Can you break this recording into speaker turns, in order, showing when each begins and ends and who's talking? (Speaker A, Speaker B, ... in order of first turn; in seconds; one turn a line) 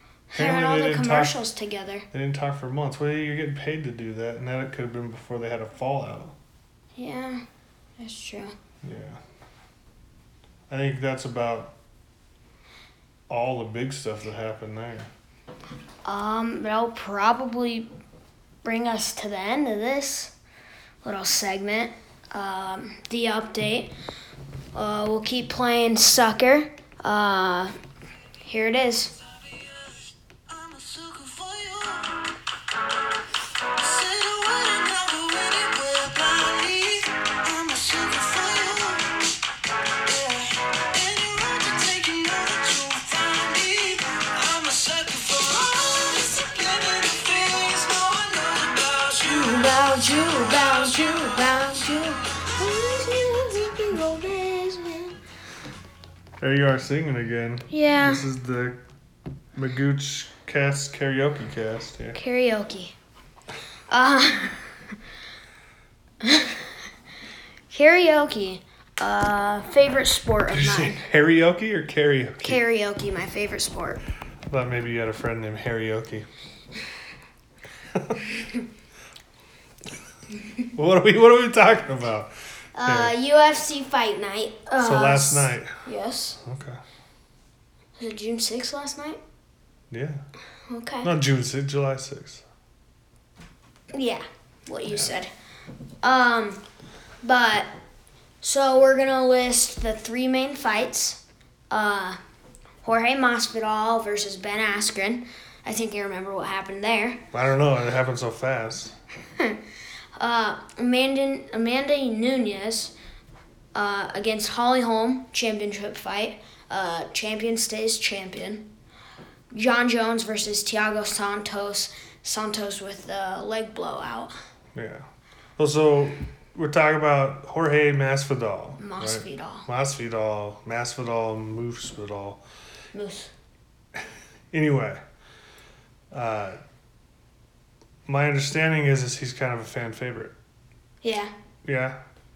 Speaker A: 0.3-2.0
Speaker B: 0.3-1.4
Speaker B: 2.1-6.3
Speaker A: 7.0-7.4
Speaker A: 8.0-8.5
Speaker B: 8.8-9.2
Speaker B: 10.7-11.7
Speaker B: 13.3-15.1
Speaker A: 16.0-17.9
Speaker A: 18.6-20.3
Speaker A: 21.0-23.9
Speaker A: 24.7-27.7
Speaker A: 28.4-29.1
Speaker C: 29.4-32.2
Speaker C: 33.8-39.1
Speaker C: 40.0-51.7
Speaker A: 49.3-55.1
Speaker B: 56.4-58.8
Speaker A: 57.7-58.2
Speaker B: 59.5-62.2
Speaker A: 62.1-62.9
Speaker A: 63.9-64.7
Speaker A: 66.2-66.7
Speaker A: 67.7-71.0
Speaker B: 70.5-72.6
Speaker A: 72.4-74.0
Speaker B: 74.5-76.3
Speaker B: 77.9-78.2
Speaker B: 80.7-82.3
Speaker A: 82.8-86.4
Speaker B: 82.8-83.1
Speaker B: 84.8-85.7
Speaker B: 86.4-86.8
Speaker A: 88.0-89.2
Speaker B: 89.9-90.2
Speaker A: 90.7-91.1
Speaker B: 91.0-92.4
Speaker A: 93.9-95.3
Speaker A: 96.0-96.6
Speaker A: 97.2-97.7
Speaker A: 98.4-102.2
Speaker A: 102.8-107.2
Speaker B: 107.3-108.9
Speaker A: 110.2-112.9
Speaker A: 113.7-118.7
Speaker A: 119.5-124.3
Speaker B: 124.7-125.0
Speaker B: 125.6-132.4
Speaker A: 128.8-129.7
Speaker A: 132.9-133.3
Speaker B: 134.0-135.0
Speaker B: 136.1-136.6
Speaker B: 138.1-140.3
Speaker A: 141.0-141.3
Speaker B: 141.6-142.0